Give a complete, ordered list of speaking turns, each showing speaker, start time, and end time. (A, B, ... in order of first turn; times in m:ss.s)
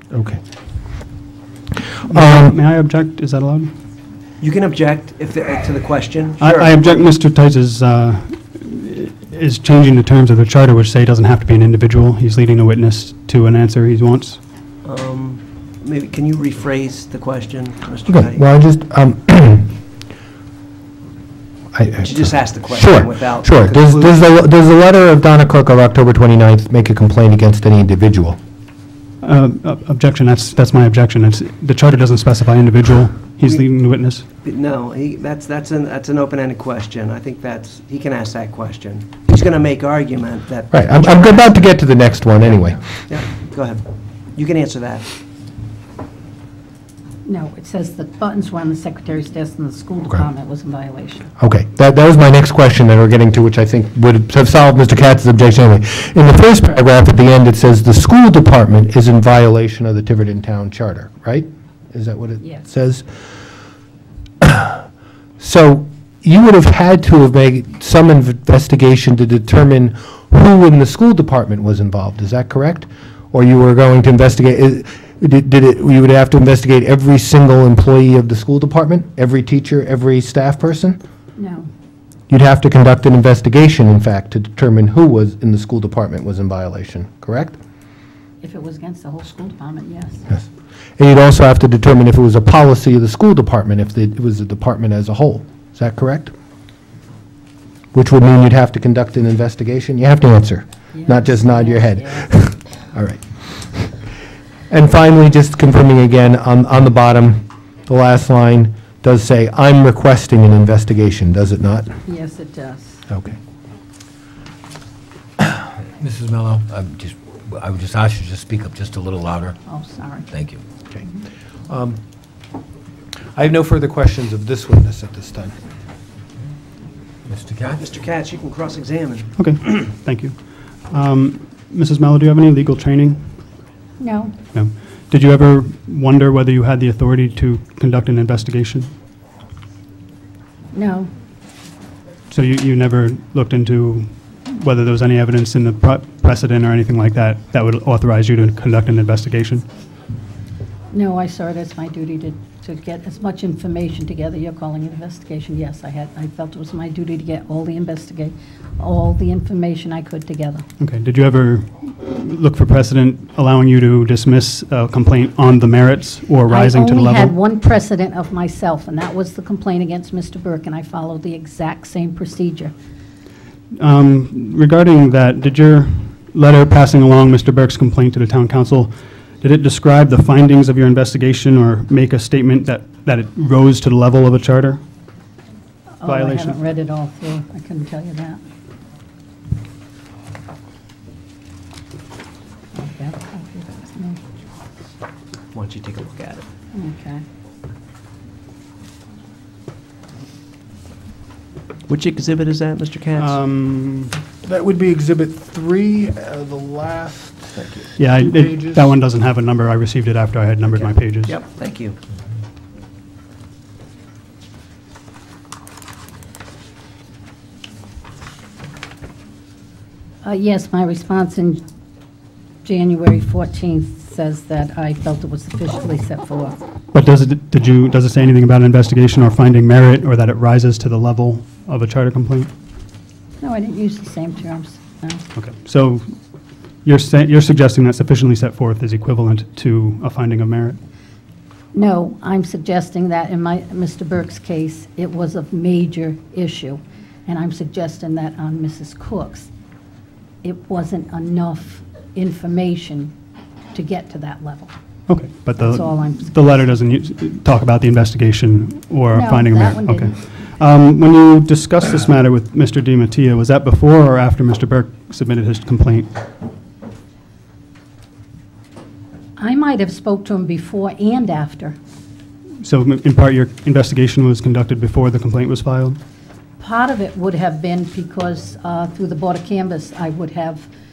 0:00.1-0:00.4 A
0:02.1-0:03.7 B
0:02.1-0:02.5 A
0:04.4-0:06.9 C
0:06.4-0:14.4 B
0:14.8-0:18.4 C
0:18.1-0:19.7 A
0:21.7-0:28.4 A
0:22.0-0:24.2 C
0:29.2-0:34.2 B
0:34.4-0:41.6 C
0:40.7-0:42.8 A
0:43.1-0:45.1 C
0:47.2-0:51.3 D
0:51.4-1:03.0 A
1:04.4-1:04.8 A
1:05.4-1:21.0 A
1:21.4-1:21.7 D
1:22.3-1:27.6 A
1:28.4-1:30.3 D
1:31.0-1:36.3 A
1:37.9-1:43.2 A
1:40.9-1:42.4 D
1:44.7-1:51.9 A
1:52.0-1:53.0 D
1:53.1-1:53.4 A
1:56.0-1:59.5 E
1:59.6-2:00.3 D
2:01.7-2:02.0 A
2:03.3-2:05.5 A
2:07.3-2:07.7 E
2:07.7-2:09.4 C
2:09.4-2:10.4 B
2:10.9-2:13.2 B
2:14.0-2:14.3 D
2:14.5-2:18.9 B
2:20.7-2:21.1 D
2:22.3-2:29.6 B
2:30.9-2:40.6 D
2:40.8-2:47.3 B
2:46.5-2:52.7 D
2:53.8-3:04.8 B
3:06.0-3:08.4 D
3:06.0-3:06.6 B
3:12.7-3:14.2 D
3:15.5-3:16.4 C
3:16.7-3:17.2 D
3:21.9-3:23.4 C
3:23.2-3:24.1 B
3:24.4-3:28.8 A
3:28.0-3:31.3 B
3:31.2-3:32.0 C
3:40.2-3:41.6 D
3:42.6-3:46.6 D
3:46.9-3:52.5 B
3:53.4-3:55.2 D
3:55.4-3:56.0 B
3:56.8-4:00.8 B
4:01.7-4:09.5 D
4:10.4-4:13.1 D
4:13.7-4:14.7 D
4:15.1-4:26.1 B
4:15.6-4:16.4 D
4:19.1-4:20.2 D
4:29.4-4:31.8 D
4:32.6-4:36.0 B
4:36.6-4:40.7 D